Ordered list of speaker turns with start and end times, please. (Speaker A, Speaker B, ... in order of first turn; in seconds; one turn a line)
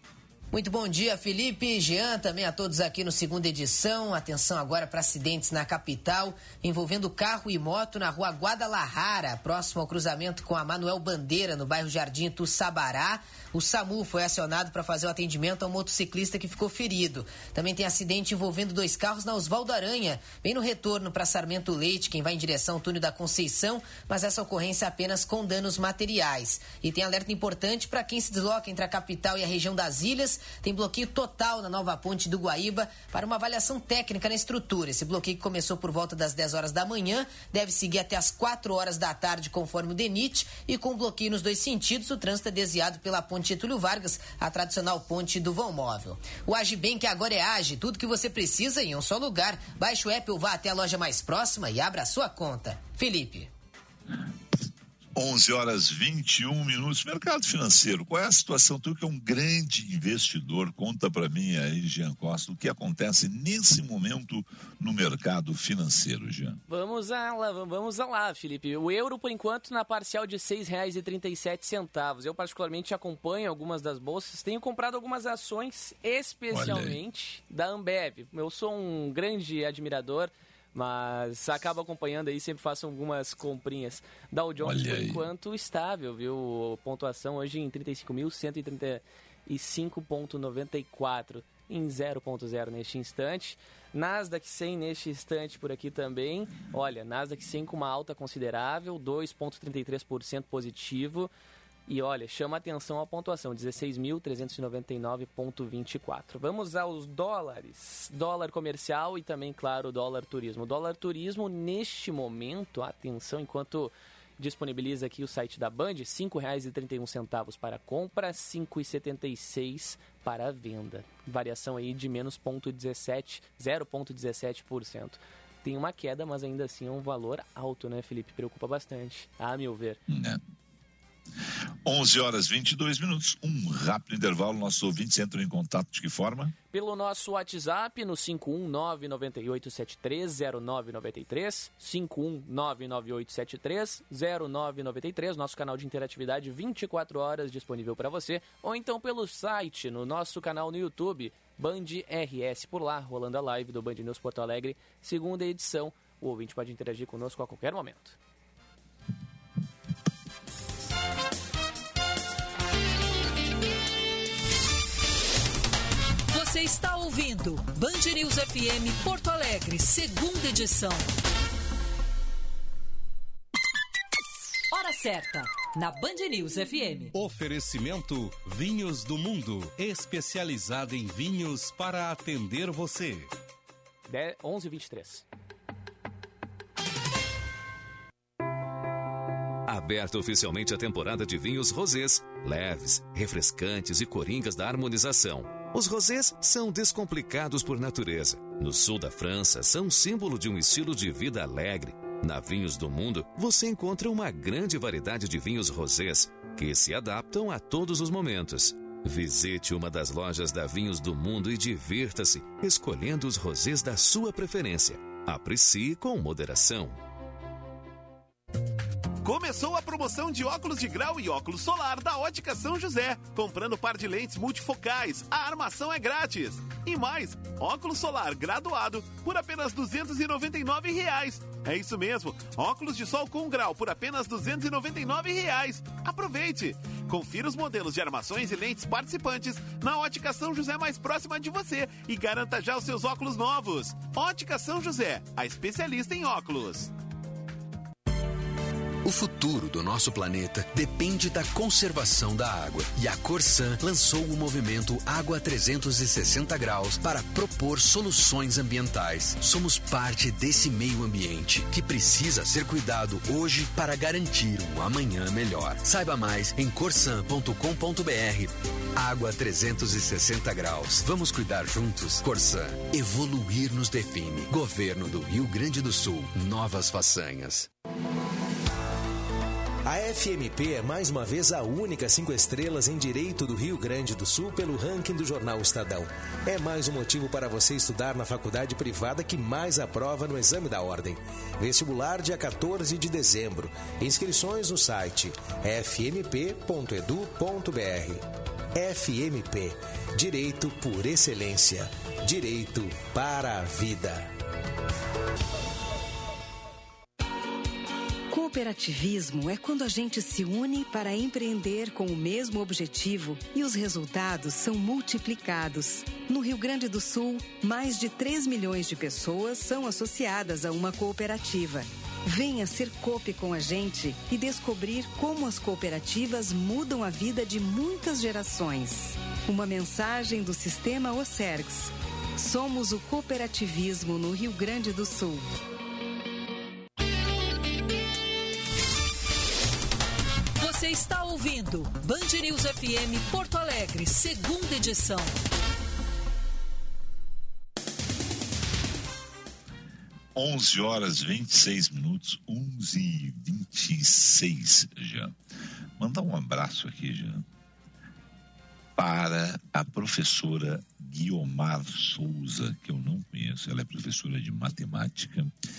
Speaker A: 0.5-53.5
Speaker B: 55.1-66.6
Speaker C: 66.7-101.3
Speaker B: 76.5-77.0
Speaker B: 84.6-85.3
Speaker C: 101.9-130.0
Speaker B: 130.1-130.4
Speaker B: 131.8-136.6
Speaker C: 136.7-158.2
Speaker D: 166.3-171.1
Speaker D: 174.7-177.1
Speaker E: 177.1-183.3
Speaker C: 184.1-185.2
Speaker F: 189.7-217.0
Speaker G: 219.2-246.9
Speaker H: 249.0-277.7
Speaker I: 279.9-304.3
Speaker J: 308.3-335.5
Speaker D: 340.6-345.4
Speaker B: 350.3-355.4
Speaker B: 356.0-357.4
Speaker B: 359.0-365.5